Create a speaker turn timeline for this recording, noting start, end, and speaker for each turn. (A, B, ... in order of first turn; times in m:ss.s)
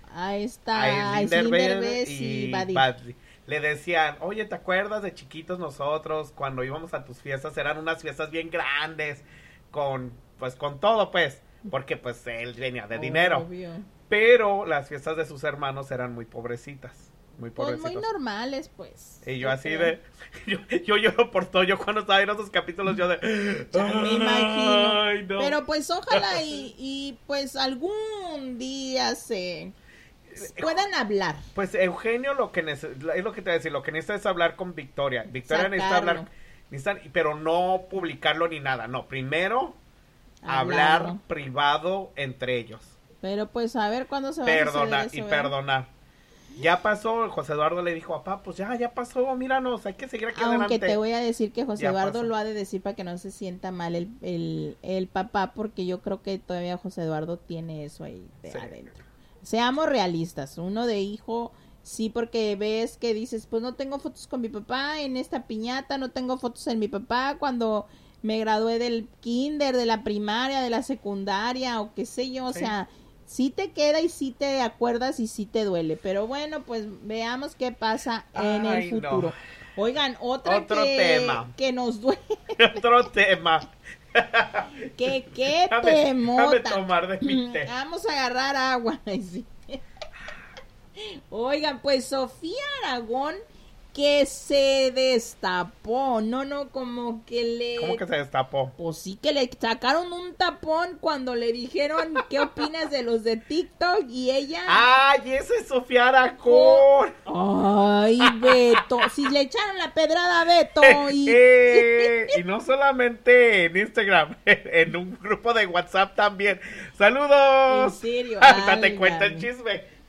0:00.1-0:02.9 A
0:00.8-0:13.5 B
0:12.9-0:13.9 A
0:14.1-0:18.1 B
0:17.6-0:20.0 A
0:19.2-0:25.6 B
0:23.7-0:29.7 A
0:26.1-0:26.6 B
0:30.3-0:30.8 B
0:30.4-0:31.5 A
0:31.6-0:39.8 B
0:35.4-0:36.3 A
0:40.4-0:41.2 A
0:40.5-0:43.0 B
0:43.2-0:45.5 A
0:44.4-0:45.9 B
0:46.6-0:51.0 B
0:50.3-1:22.8 A
0:51.8-0:52.3 B
0:58.5-0:58.7 B
1:12.5-1:12.7 B
1:18.4-1:19.3 B
1:20.4-1:21.5 B
1:22.6-1:24.7 B
1:25.0-1:29.8 A
1:25.4-1:27.7 B
1:31.0-1:33.4 A
1:33.9-1:38.0 A
1:37.8-1:38.7 B
1:38.8-1:44.8 A
1:44.7-1:47.2 B
1:46.4-1:52.4 A
1:48.2-1:48.6 B
1:50.8-1:59.9 B
1:57.7-1:59.5 A